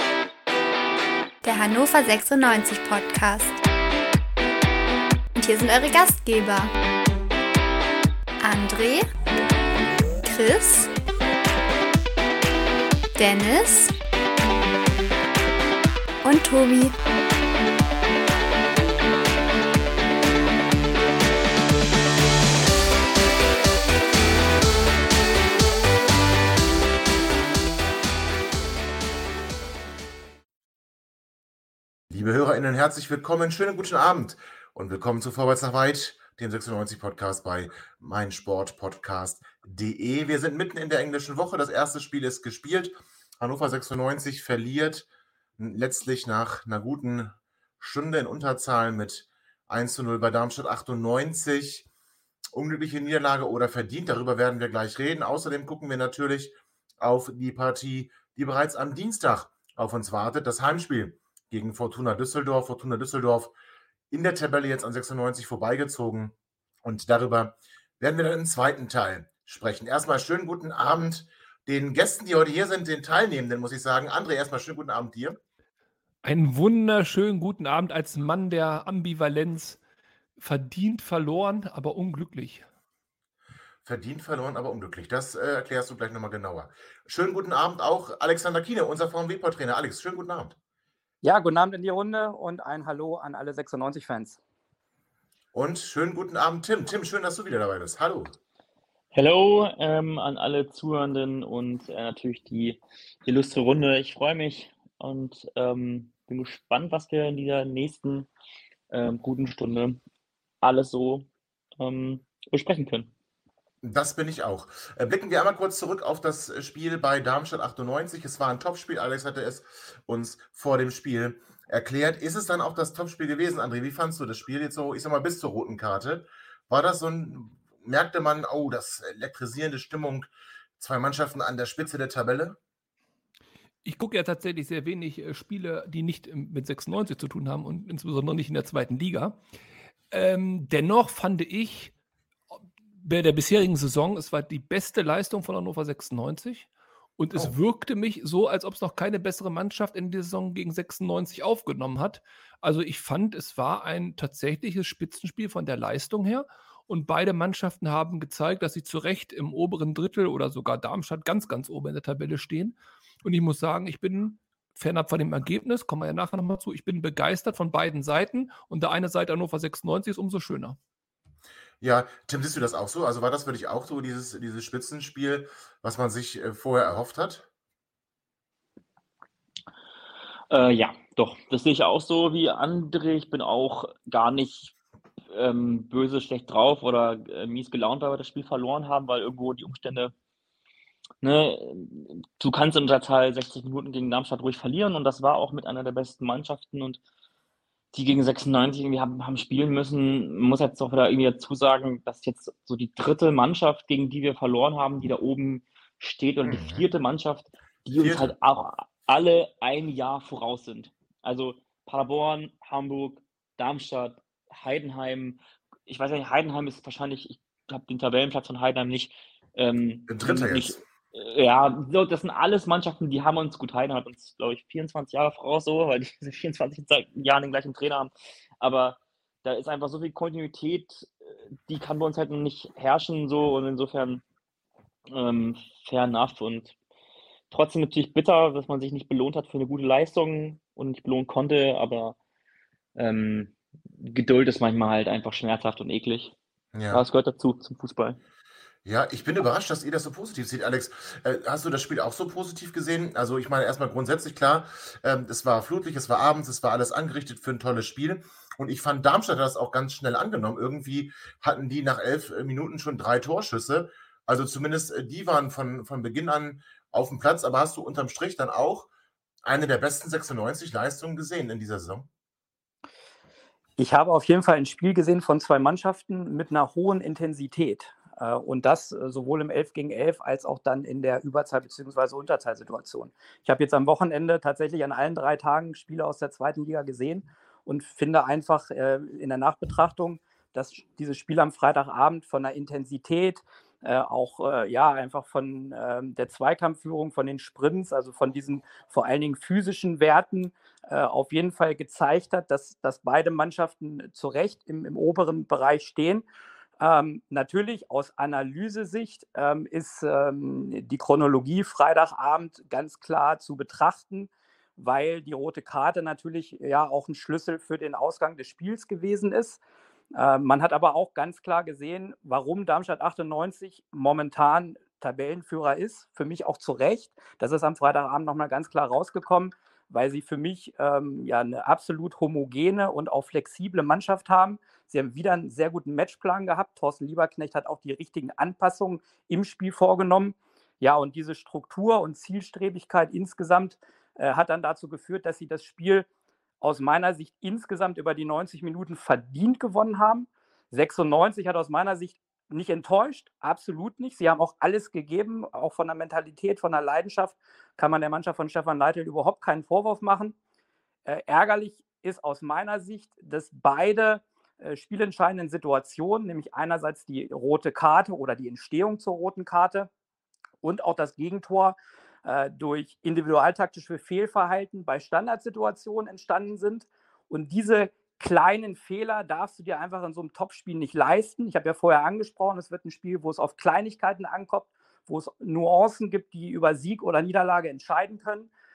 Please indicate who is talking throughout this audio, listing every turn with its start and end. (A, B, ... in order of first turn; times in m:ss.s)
0:01.4-0:03.6 A
0:05.4-0:06.7 A
0:08.4-0:09.1 A
0:10.2-0:10.9 A
0:13.2-0:13.9 A
0:16.2-0:17.0 A
0:32.1-0:51.9 B
0:52.5-1:03.5 B
1:04.1-1:15.4 B
1:16.2-1:19.8 C
1:20.4-1:22.6 C
1:23.8-1:30.6 B
1:31.2-1:34.4 D
1:35.5-1:38.4 B
1:39.1-1:48.3 E
1:48.9-1:50.0 E
1:50.6-1:51.3 E
1:51.8-1:53.1 E
1:53.8-2:12.6 B
2:13.8-2:19.4 C
2:20.1-2:21.9 C
2:23.0-2:26.7 C
2:27.2-2:50.8 C
2:51.8-2:57.5 B
3:00.5-3:04.7 E
3:05.3-3:10.1 E
3:11.2-3:17.0 E
3:17.9-3:51.1 E
3:26.4-3:26.8 B
3:28.0-3:28.3 B
3:40.1-3:40.8 B
3:51.7-3:54.2 E
3:55.1-3:56.8 E
3:57.5-4:02.2 E
4:03.0-4:06.4 E
4:06.7-4:07.0 B
4:06.9-4:08.2 E
4:08.8-4:28.9 B
4:29.4-4:32.1 B
4:33.8-5:06.3 D
5:06.8-5:19.6 D
5:20.1-5:46.1 D
5:46.6-6:00.4 D
6:01.1-6:09.9 D
6:10.6-6:28.5 D